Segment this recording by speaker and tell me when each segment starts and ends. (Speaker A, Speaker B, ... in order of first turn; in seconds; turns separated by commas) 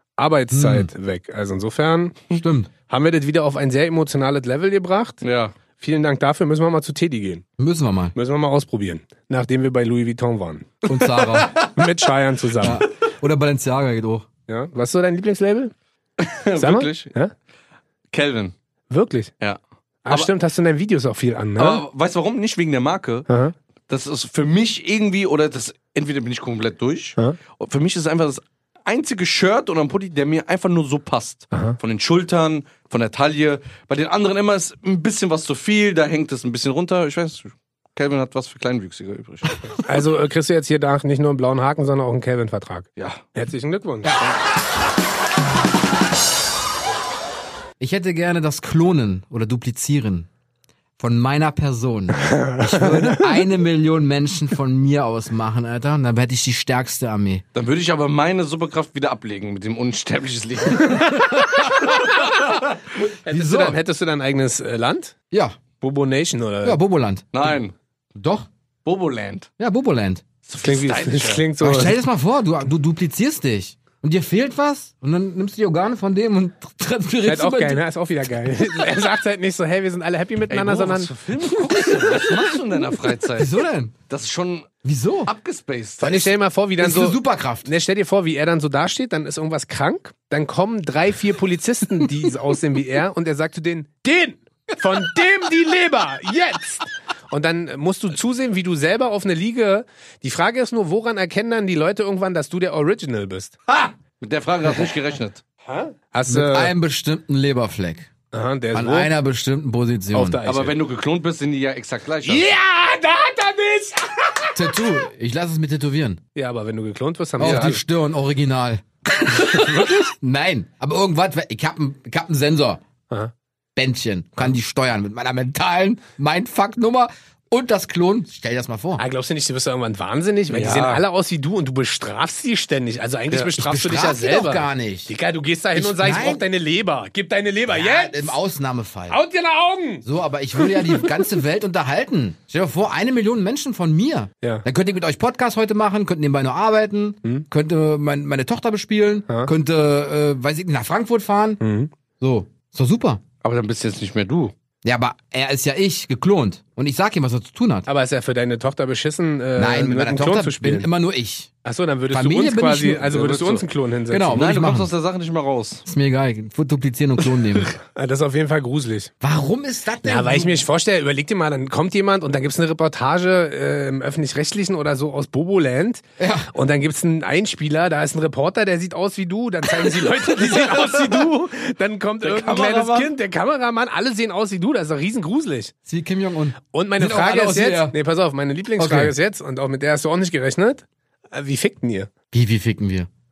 Speaker A: 0.2-5.2, Speaker B: 0.5-0.9, Speaker B: 2.3-2.7, Speaker C: 5.2-5.5, Speaker A: 5.8-7.4, Speaker B: 7.6-8.1, Speaker A: 8.1-10.8, Speaker B: 10.8-11.6, Speaker C: 11.2-11.7, Speaker A: 11.6-12.8, Speaker B: 12.6-14.3, Speaker A: 14.5-15.7, Speaker C: 16.2-17.1, Speaker A: 16.6-17.3, Speaker C: 18.1-18.5, Speaker A: 18.9-19.3, Speaker C: 19.4-20.3, Speaker A: 20.0-21.8, Speaker C: 21.6-23.3, Speaker A: 23.3-23.5, Speaker C: 23.9-39.8, Speaker A: 39.8-44.2, Speaker C: 43.0-43.2, Speaker B: 47.8-50.3, Speaker B: 51.0-57.4, Speaker A: 52.2-53.4, Speaker C: 57.5-62.7, Speaker A: 60.8-61.6, Speaker A: 63.0-65.1, Speaker B: 63.3-63.8, Speaker B: 65.3-65.6, Speaker A: 65.8-66.8, Speaker B: 66.6-67.3, Speaker C: 67.3-67.7, Speaker B: 68.1-68.5, Speaker C: 68.8-69.5, Speaker B: 69.6-70.2, Speaker C: 70.5-71.5, Speaker A: 70.6-72.0, Speaker B: 71.6-77.8, Speaker A: 77.2-82.5, Speaker C: 80.5-83.5, Speaker B: 83.3-83.9, Speaker C: 84.1-84.7, Speaker B: 84.8-85.3, Speaker C: 85.2-86.3, Speaker A: 86.0-103.6, Speaker B: 86.8-87.7, Speaker C: 103.7-105.4, Speaker A: 105.6-106.7, Speaker B: 106.3-108.1, Speaker A: 108.3-109.1, Speaker B: 108.7-110.4, Speaker A: 110.1-110.8, Speaker C: 110.4-112.5, Speaker A: 112.2-114.7, Speaker B: 114.5-116.2, Speaker A: 116.3-117.8, Speaker B: 117.4-122.8, Speaker A: 119.4-120.1, Speaker B: 123.7-129.0, Speaker A: 129.0-138.3, Speaker C: 130.5-131.0, Speaker B: 133.6-135.1, Speaker B: 135.7-136.4, Speaker B: 137.7-139.2, Speaker A: 139.1-141.3, Speaker B: 140.0-151.6, Speaker A: 151.6-151.9, Speaker B: 152.2-153.2, Speaker C: 153.4-154.5, Speaker B: 154.8-157.9, Speaker A: 157.9-160.9, Speaker B: 159.6-161.5, Speaker A: 161.6-164.5, Speaker B: 162.1-163.2, Speaker C: 163.1-163.6, Speaker B: 164.1-164.9, Speaker C: 164.3-165.8, Speaker B: 165.8-167.7, Speaker A: 167.9-169.1, Speaker B: 169.2-170.6, Speaker A: 170.0-185.7, Speaker B: 176.2-176.5, Speaker C: 179.8-181.3, Speaker C: 182.2-183.1, Speaker B: 185.8-187.9, Speaker A: 186.7-192.1, Speaker B: 188.8-189.1, Speaker B: 192.3-193.1